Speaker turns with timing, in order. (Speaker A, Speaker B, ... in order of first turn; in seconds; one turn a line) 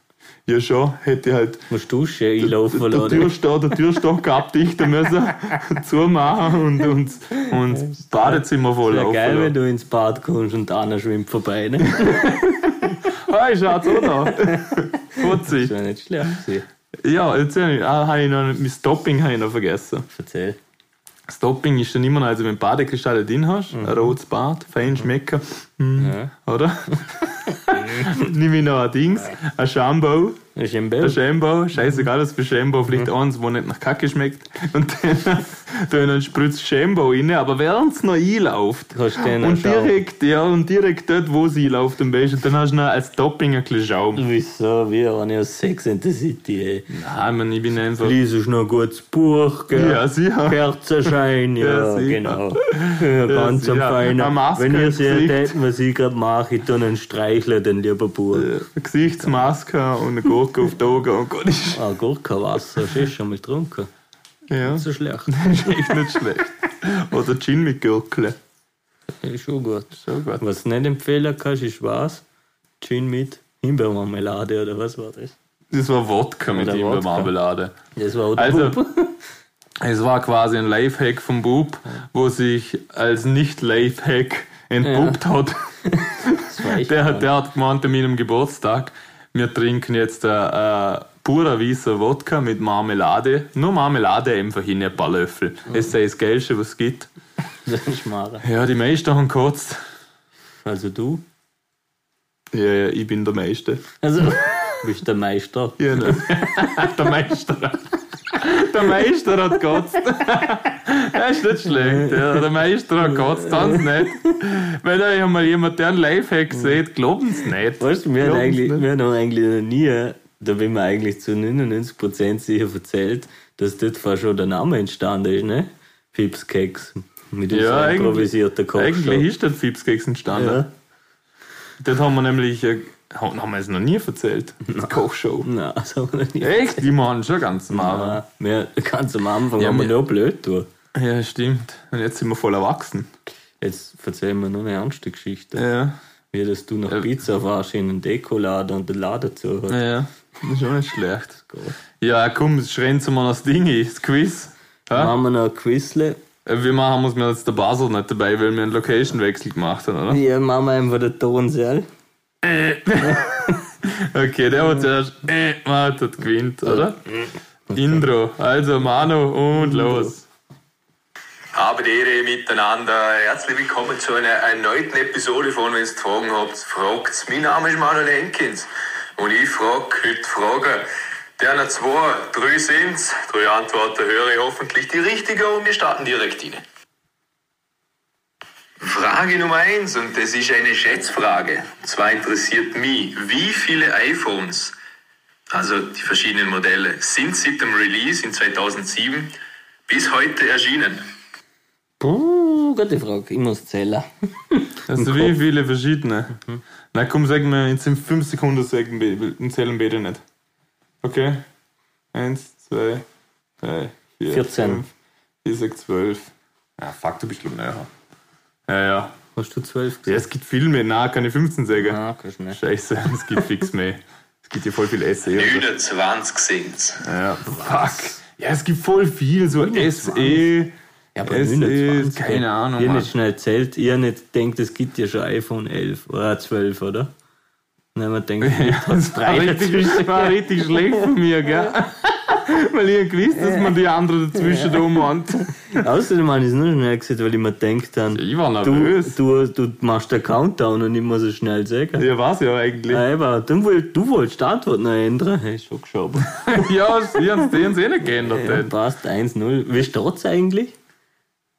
Speaker A: 0.5-1.7
Speaker B: 1.7-3.3
Speaker A: 2.4-9.6
Speaker B: 7.8-13.0
Speaker A: 11.9-15.7
Speaker B: 14.2-16.7
Speaker A: 17.0-20.1
Speaker B: 20.1-20.6
Speaker A: 21.3-30.4
Speaker B: 23.7-24.1
Speaker B: 26.0-26.3
Speaker B: 27.7-28.1
Speaker B: 30.6-31.2
Speaker A: 31.0-44.2
Speaker B: 38.9-40.0
Speaker B: 44.1-46.9
Speaker A: 46.9-48.2
Speaker B: 48.0-58.5
Speaker A: 49.7-55.6
Speaker A: 58.3-61.8
Speaker B: 61.7-63.9
Speaker A: 64.5-68.4
Speaker B: 64.7-65.9
Speaker B: 69.2-72.2
Speaker A: 70.0-70.4
Speaker B: 72.8-75.4
Speaker A: 75.7-77.7
Speaker B: 76.5-77.3
Speaker B: 78.0-79.2
Speaker A: 78.3-78.8
Speaker A: 79.8-85.7
Speaker B: 84.8-85.2
Speaker B: 86.0-87.3
Speaker A: 86.3-97.1
Speaker B: 97.7-98.4
Speaker A: 98.4-99.8
Speaker B: 100.6-101.2
Speaker A: 102.5-103.8
Speaker B: 104.0-106.7
Speaker A: 105.8-118.9
Speaker B: 111.7-112.4
Speaker B: 113.2-114.1
Speaker B: 117.8-129.3
Speaker A: 127.5-130.7
Speaker B: 130.3-130.7
Speaker A: 131.8-135.5
Speaker B: 134.7-136.8
Speaker A: 136.4-138.2
Speaker B: 137.7-140.7
Speaker A: 139.6-139.9
Speaker A: 140.9-143.1
Speaker B: 143.6-145.7
Speaker A: 145.6-146.0
Speaker B: 146.3-149.8
Speaker A: 149.7-151.4
Speaker B: 151.4-151.8
Speaker A: 152.0-155.2
Speaker B: 154.9-156.2
Speaker A: 156.4-160.2
Speaker B: 160.1-161.9
Speaker A: 162.4-167.1
Speaker B: 163.0-163.3
Speaker B: 166.7-168.0
Speaker A: 167.7-170.3
Speaker B: 169.6-170.1
Speaker C: 171.5-180.9
Speaker C: 181.4-186.6
Speaker C: 188.8-194.8
Speaker C: 195.5-199.3
Speaker C: 199.9-201.0
Speaker B: 202.0-205.3
Speaker A: 204.9-206.4
Speaker A: 206.9-210.2
Speaker A: 211.0-211.4
Speaker A: 212.1-213.1
Speaker A: 213.6-214.9
Speaker B: 214.3-214.8
Speaker A: 215.4-217.9
Speaker A: 218.7-219.2
Speaker B: 219.4-220.2
Speaker A: 220.1-222.0
Speaker B: 221.8-222.6
Speaker A: 222.5-225.7
Speaker C: 225.3-227.0
Speaker A: 227.0-230.7
Speaker B: 227.7-228.1
Speaker B: 229.6-230.5
Speaker B: 231.2-237.1
Speaker A: 231.2-233.1
Speaker B: 237.9-240.4
Speaker A: 238.4-245.8
Speaker B: 244.5-244.9
Speaker B: 245.7-252.1
Speaker A: 248.1-249.2
Speaker A: 252.0-253.1
Speaker B: 252.9-256.5
Speaker A: 256.4-258.7
Speaker B: 258.2-260.8